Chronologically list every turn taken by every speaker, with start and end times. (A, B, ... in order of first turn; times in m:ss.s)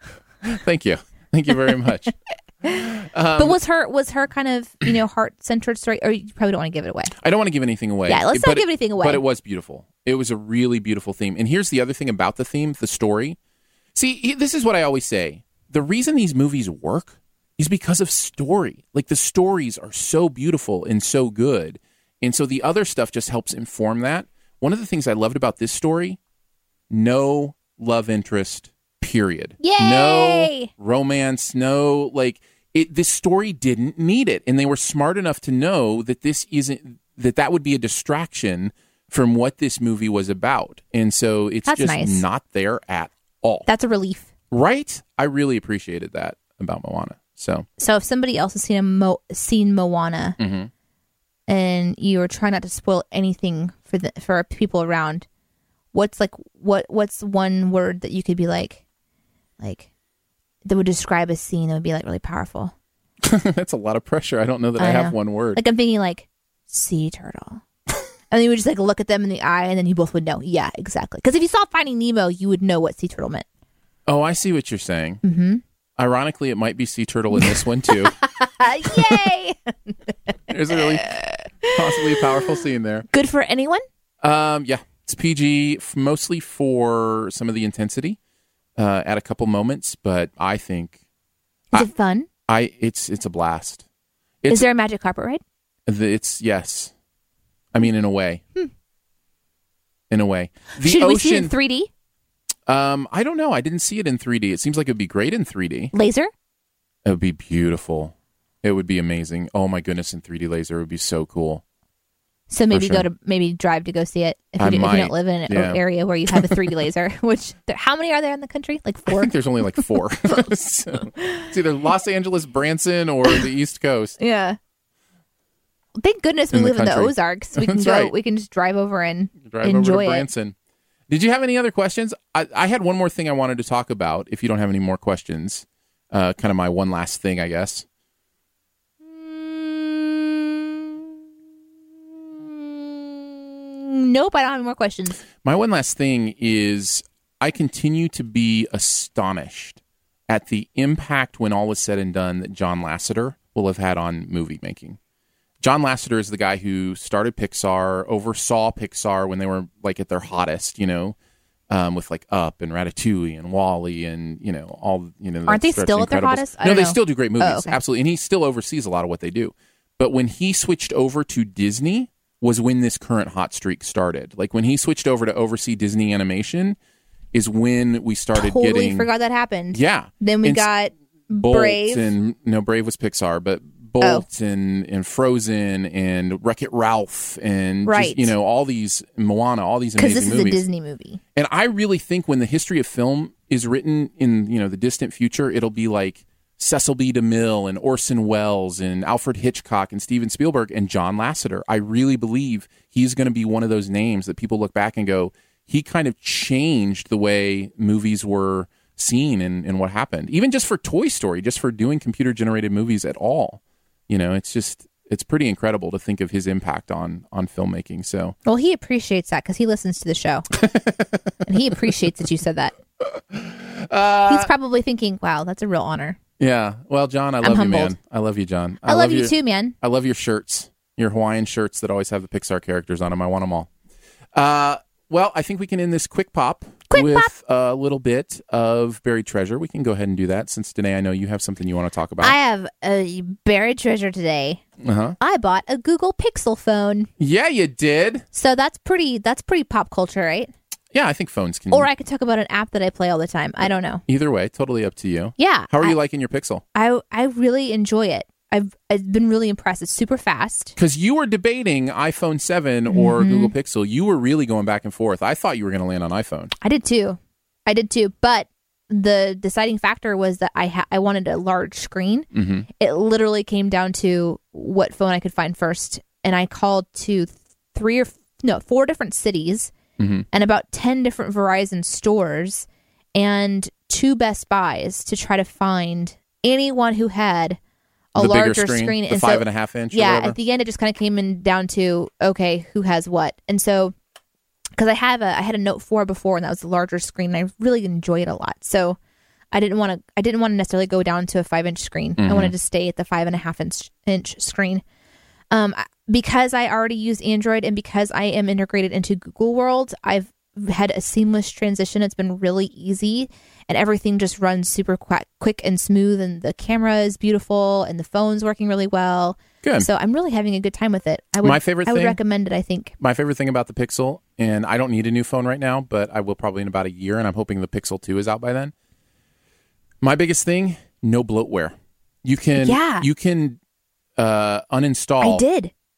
0:00.4-0:03.6 A
0:03.4-0:07.1 B
0:07.2-0:13.4 A
0:08.1-0:09.2 B
0:14.0-0:26.2 A
0:26.9-0:43.7 A
0:29.6-0:30.7 B
0:41.7-0:42.2 B
0:43.7-0:44.3 B
0:44.5-0:47.7 A
0:47.8-0:50.4 B
0:50.4-0:50.7 A
0:51.5-0:55.3 B
0:55.9-0:58.8 B
0:59.6-0:59.9 B
1:00.7-1:02.7 B
1:03.2-1:05.6 A
1:04.8-1:07.6 B
1:08.3-1:13.4 B
1:14.1-1:15.2 A
1:15.2-1:15.6 B
1:16.0-1:18.2 A
1:18.1-1:19.9 B
1:18.9-1:19.2 A
1:20.5-1:23.1 A
1:20.9-1:22.0 B
1:23.1-1:23.8 B
1:24.2-1:28.2 A
1:28.8-1:31.0 A
1:31.7-1:32.3 B
1:32.5-1:33.8 A
1:34.5-1:35.4 B
1:35.9-1:36.9 A
1:37.7-1:38.4 A
1:40.1-1:41.6 A
1:40.8-1:41.9 B
1:42.7-1:45.9 A
1:45.9-1:46.3 B
1:47.0-1:51.6 A
1:52.5-1:59.3 B
1:52.7-1:53.1 A
1:54.6-1:56.6 A
1:59.1-2:04.2 A
2:01.1-2:01.4 B
2:04.2-2:04.6 B
2:06.0-2:10.3 B
2:06.5-2:08.1 A
2:09.4-2:10.5 A
2:11.1-2:17.8 A
2:19.1-2:21.1 B
2:22.1-2:25.2 B
2:25.3-2:35.0 A
2:35.6-2:41.2 A
2:41.7-2:56.8 A
2:45.5-2:47.8 B
2:57.3-2:59.1 A
2:58.3-3:02.1 B
2:59.7-3:10.7 A
3:07.8-3:08.3 B
3:10.0-3:11.2 B
3:11.4-3:38.4 A
3:38.5-3:40.5 B
3:40.6-3:41.4 A
3:41.5-3:42.7 B
3:43.0-3:44.5 A
3:44.2-3:46.2 B
3:46.4-3:53.7 A
3:47.4-3:48.0 B
3:48.8-3:49.7 B
3:54.4-4:02.4 A
3:56.9-3:57.3 B
4:02.2-4:04.6 B
4:04.8-4:05.2 A
4:05.2-4:07.1 B
4:07.2-4:08.2 A
4:08.3-4:10.5 B
4:10.9-4:11.9 A
4:11.7-4:14.0 B
4:13.6-4:16.6 A
4:15.4-4:16.0 B
4:16.8-4:20.8 B
4:20.8-4:26.5 A
4:22.9-4:23.5 B
4:26.6-4:39.7 B
4:32.3-4:32.7 A
4:40.0-4:40.3 A
4:40.3-4:47.6 B
4:48.2-4:53.9 B
4:48.2-4:50.4 A
4:54.8-4:59.0 B
4:59.5-5:04.8 B
5:02.2-5:02.5 A
5:05.5-5:22.9 B
5:19.6-5:19.9 A
5:21.4-5:22.2 A
5:23.0-5:28.7 A
5:30.0-5:33.6 A
5:32.6-5:33.1 B
5:34.2-5:35.4 A
5:35.2-5:35.7 B